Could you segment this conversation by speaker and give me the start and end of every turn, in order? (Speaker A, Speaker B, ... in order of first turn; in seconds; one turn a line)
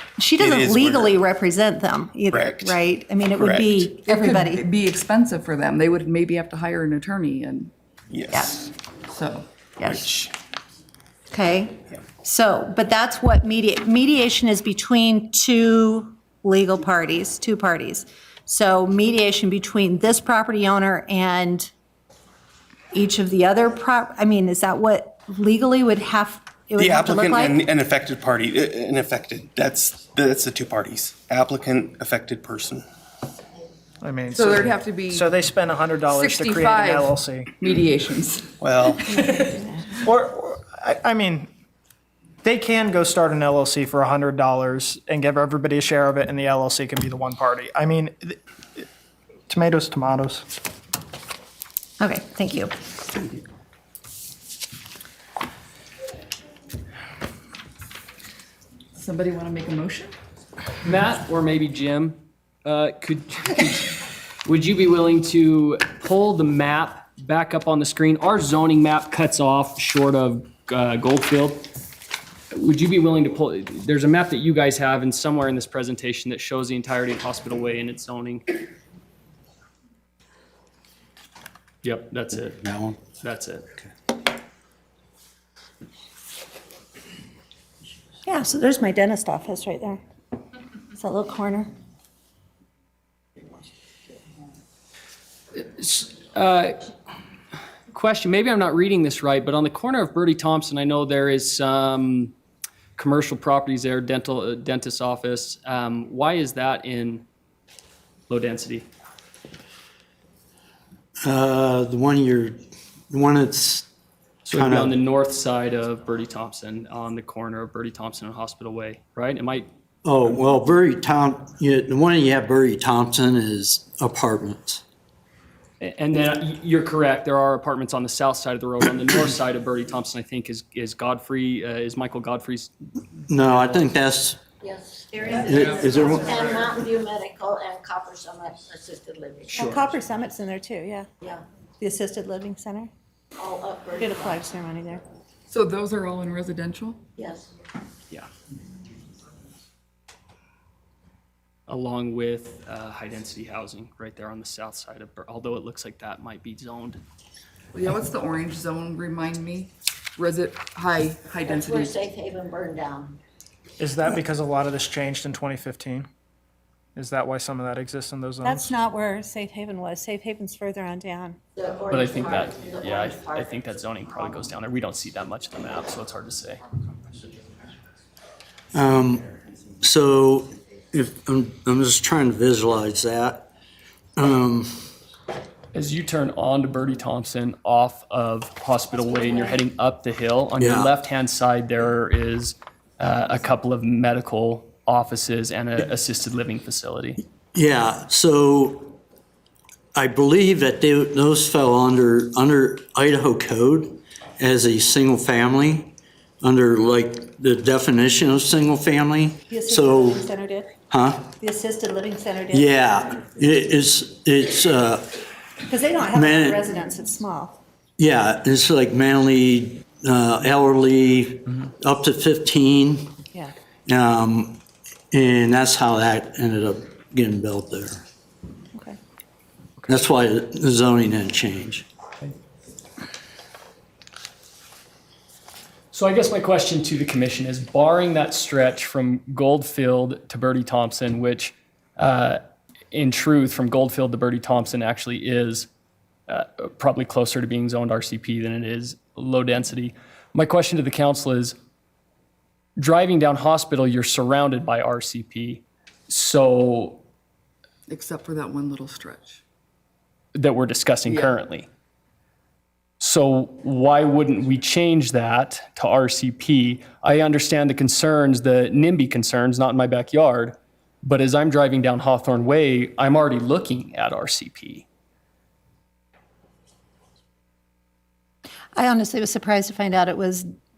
Speaker A: 0.2-4.7
Speaker B: 0.4-1.2
Speaker B: 2.3-2.8
Speaker B: 3.4-4.0
Speaker C: 4.1-7.7
Speaker B: 8.1-8.7
Speaker A: 8.3-8.6
Speaker C: 9.1-9.4
Speaker B: 9.8-10.3
Speaker A: 11.3-21.7
Speaker A: 22.9-27.6
Speaker B: 26.8-32.8
Speaker D: 34.0-37.5
Speaker C: 34.4-35.1
Speaker C: 36.2-36.7
Speaker C: 37.6-38.4
Speaker B: 38.6-39.1
Speaker A: 39.2-39.8
Speaker D: 40.0-41.5
Speaker D: 42.4-48.8
Speaker D: 49.5-50.4
Speaker A: 52.0-52.7
Speaker C: 58.9-60.1
Speaker E: 60.8-71.7
Speaker E: 72.5-78.4
Speaker E: 81.8-83.7
Speaker F: 82.6-83.0
Speaker A: 88.2-90.0
Speaker A: 90.9-91.7
Speaker E: 95.5-96.8
Speaker E: 97.9-102.3
Speaker E: 103.0-107.2
Speaker E: 108.3-108.9
Speaker F: 111.2-112.6
Speaker F: 113.1-113.9
Speaker E: 114.5-119.7
Speaker F: 114.5-115.0
Speaker F: 120.0-124.8
Speaker E: 125.8-132.7
Speaker F: 133.3-134.4
Speaker G: 134.6-139.8
Speaker A: 135.1-135.4
Speaker F: 135.4-136.4
Speaker A: 139.5-141.1
Speaker A: 141.8-142.9
Speaker G: 143.4-144.4
Speaker A: 144.0-145.0
Speaker C: 145.5-147.0
Speaker G: 147.2-147.5
Speaker E: 151.7-157.0
Speaker C: 157.7-161.6
Speaker G: 161.4-163.2
Speaker D: 163.8-166.1
Speaker D: 166.9-168.7
Speaker A: 168.4-171.4
Speaker G: 171.6-173.6
Speaker E: 171.9-177.3
Speaker F: 178.7-179.3
Speaker F: 179.8-183.5
Speaker F: 184.2-184.9
Speaker E: 185.7-197.2
Speaker F: 190.6-190.9
Speaker F: 197.5-199.0
Speaker F: 199.9-210.3
Speaker A: 209.5-210.7
Speaker F: 210.9-211.3
Speaker A: 211.3-212.7
Speaker F: 212.5-215.2
Speaker A: 215.7-217.6
Speaker F: 216.1-216.6
Speaker F: 218.0-223.2
Speaker F: 223.9-228.0
Speaker F: 229.9-231.9
Speaker E: 235.9-242.4
Speaker E: 242.9-245.7
Speaker E: 246.3-251.6
Speaker E: 252.8-257.0
Speaker C: 257.9-259.4
Speaker E: 260.3-261.7
Speaker E: 263.0-274.8
Speaker A: 278.8-280.5